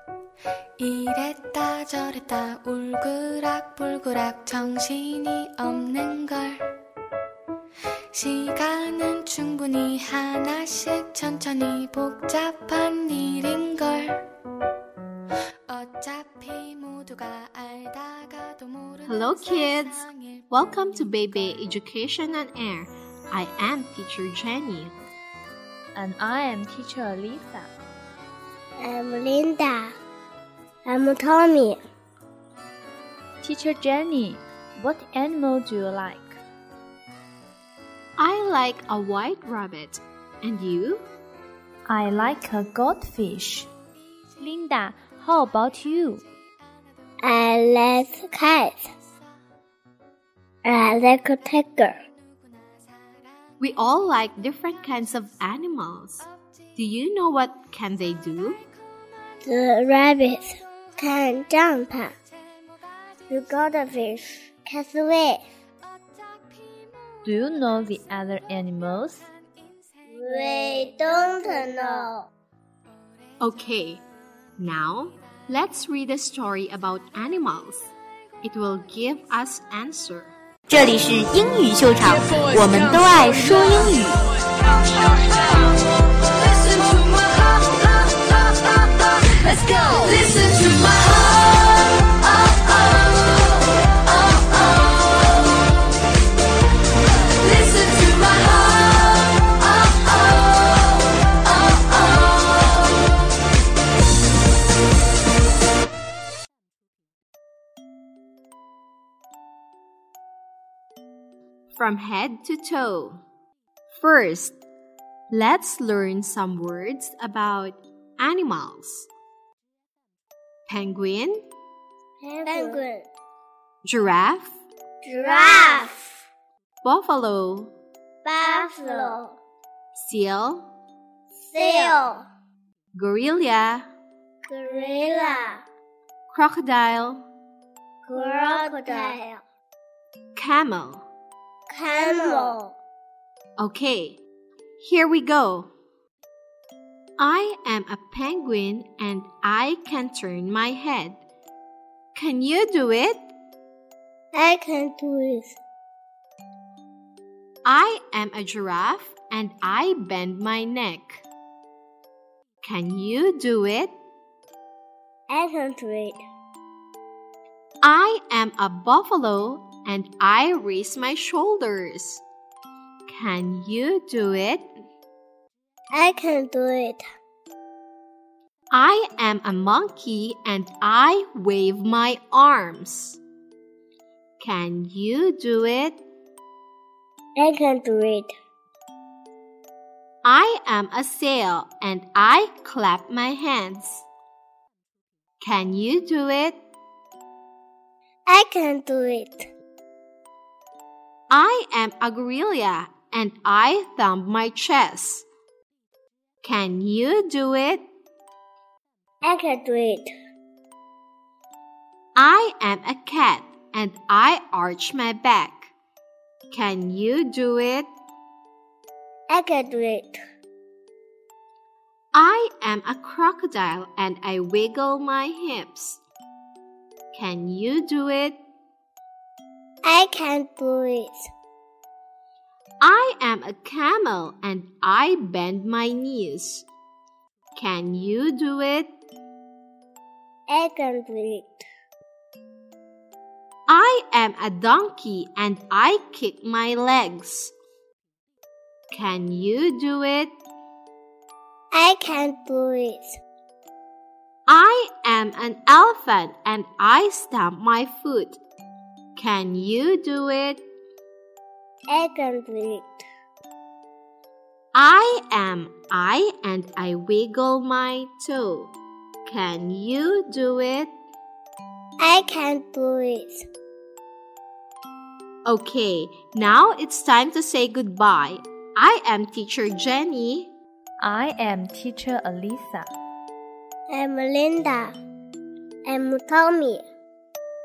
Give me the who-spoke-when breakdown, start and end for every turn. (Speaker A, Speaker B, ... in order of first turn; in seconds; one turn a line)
Speaker A: 0.8-6.7
Speaker A: 8.1-14.3
Speaker A: 15.7-20.4
Speaker B: 19.0-24.9
Speaker C: 25.9-27.7
Speaker D: 28.8-29.9
Speaker D: 30.9-31.8
Speaker C: 33.4-36.4
Speaker B: 38.2-41.0
Speaker C: 41.9-43.7
Speaker C: 44.4-46.2
Speaker D: 47.2-48.8
Speaker D: 50.6-52.0
Speaker B: 53.6-58.6
Speaker D: 59.4-62.1
Speaker D: 63.3-65.4
Speaker C: 67.2-69.3
Speaker D: 70.1-72.3
Speaker B: 73.4-74.0
Speaker B: 74.6-80.3
Speaker E: 80.7-84.2
Speaker B: 86.8-87.7
Speaker B: 89.5-91.2
Speaker B: 97.4-99.2
Speaker B: 111.7-113.2
Speaker B: 113.9-114.5
Speaker B: 115.3-119.1
Speaker B: 120.7-121.4
Speaker D: 122.2-123.1
Speaker B: 123.8-124.5
Speaker D: 125.0-126.0
Speaker B: 126.8-127.7
Speaker D: 128.2-129.3
Speaker B: 129.9-130.6
Speaker D: 131.5-132.2
Speaker B: 132.9-133.8
Speaker D: 134.4-135.6
Speaker B: 136.3-137.2
Speaker D: 138.1-139.4
Speaker C: 138.3-138.7
Speaker B: 140.3-141.0
Speaker D: 141.7-142.7
Speaker B: 143.6-144.2
Speaker B: 144.8-145.7
Speaker B: 147.2-151.2
Speaker B: 152.1-153.2
Speaker D: 154.3-155.6
Speaker B: 157.6-161.2
Speaker B: 162.6-163.9
Speaker D: 165.3-166.2
Speaker B: 167.8-172.2
Speaker B: 173.1-174.6
Speaker D: 175.9-177.0
Speaker B: 178.7-183.2
Speaker B: 184.4-186.0
Speaker D: 187.4-188.3
Speaker B: 190.2-194.1
Speaker B: 195.4-196.6
Speaker D: 198.3-199.5
Speaker B: 201.3-205.2
Speaker B: 206.4-207.8
Speaker D: 209.2-210.1
Speaker B: 212.2-215.7
Speaker B: 216.5-217.9
Speaker D: 219.3-220.2
Speaker B: 222.1-226.0
Speaker B: 227.1-228.4
Speaker D: 229.8-231.3
Speaker B: 232.8-236.7
Speaker B: 237.6-238.9
Speaker D: 240.5-241.6
Speaker B: 243.7-247.5
Speaker B: 248.9-250.3
Speaker D: 251.7-253.2
Speaker B: 254.5-258.4
Speaker B: 259.1-260.6
Speaker D: 261.9-263.0
Speaker B: 264.7-268.7
Speaker B: 269.2-270.9
Speaker D: 272.0-273.4
Speaker B: 275.4-280.5
Speaker C: 281.0-282.9
Speaker D: 283.9-284.9
Speaker D: 285.9-286.8